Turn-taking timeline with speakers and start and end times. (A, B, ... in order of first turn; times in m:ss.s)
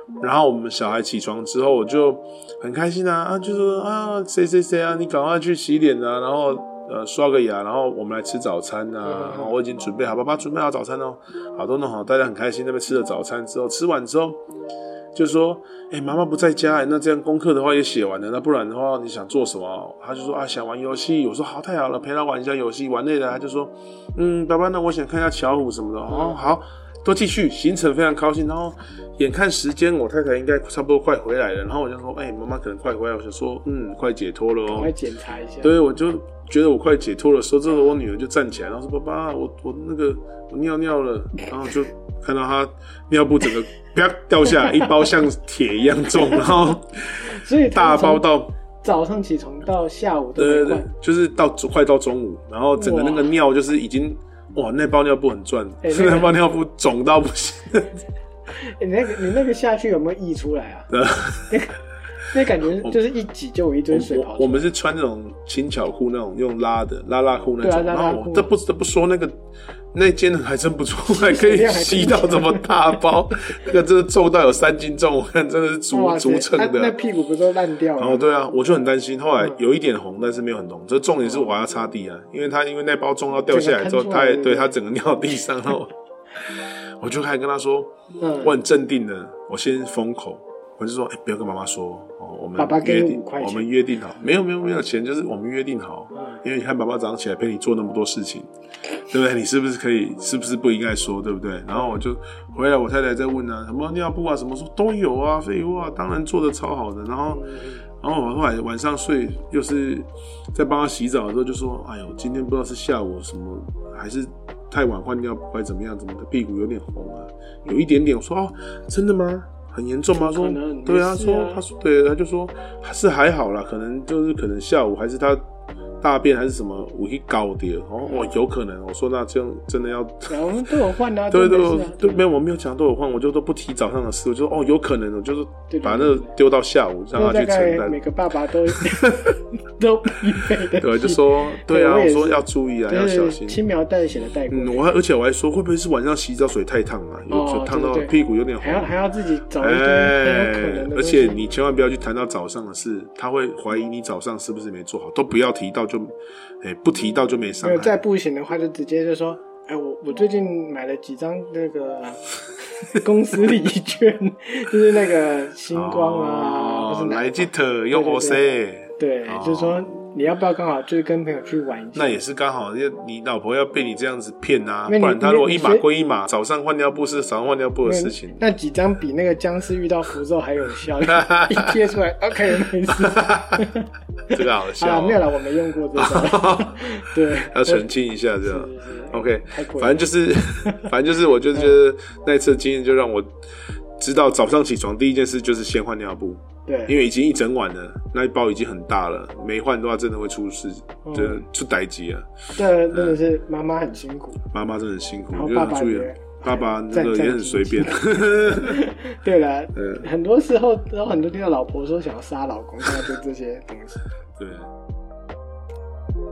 0:00.2-0:14.4 A
0:09.0-0:09.5 B
0:15.1-0:34.9 A
0:26.1-0:26.5 B
0:34.7-0:35.7 B
0:35.6-0:48.5 A
0:47.2-0:48.2 B
0:48.8-0:50.9 B
0:50.4-0:58.0 A
0:52.8-0:53.3 B
0:55.8-0:56.4 B
0:58.5-1:00.9 B
1:00.9-1:01.6 A
1:01.5-1:04.7 B
1:03.9-1:09.4 A
1:07.6-1:08.5 B
1:09.9-1:16.9 A
1:11.1-1:13.0 B
1:15.9-1:18.2 B
1:18.0-1:47.4 A
1:21.2-1:21.5 B
1:23.5-1:24.8 B
1:28.2-1:28.5 B
1:32.6-1:33.7 B
1:36.2-1:36.4 B
1:41.7-1:42.0 B
1:47.3-1:47.8 B
1:48.0-2:05.4 A
2:00.1-2:01.6 B
2:06.0-2:10.5 A
2:08.0-2:08.3 B
2:10.3-2:12.2 B
2:11.3-2:18.0 A
2:15.7-2:16.3 B
2:17.1-2:24.9 B
2:18.7-2:19.3 A
2:20.4-2:23.6 A
2:24.5-2:28.9 A
2:27.3-2:31.4 B
2:29.6-2:38.0 A
2:37.6-2:48.4 B
2:45.7-2:49.9 A
2:49.0-2:52.2 B
2:51.9-2:58.4 A
2:54.9-2:55.8 B
2:57.8-3:07.9 B
3:01.0-3:01.8 A
3:02.9-3:03.6 A
3:04.3-3:05.2 A
3:05.9-3:13.3 A
3:08.4-3:10.1 B
3:14.0-3:23.2 A
3:16.6-3:17.0 B
3:21.0-3:21.4 B
3:22.6-3:24.4 B
3:24.5-3:28.8 A
3:25.3-3:34.0 B
3:29.7-3:30.0 A
3:34.4-3:34.7 A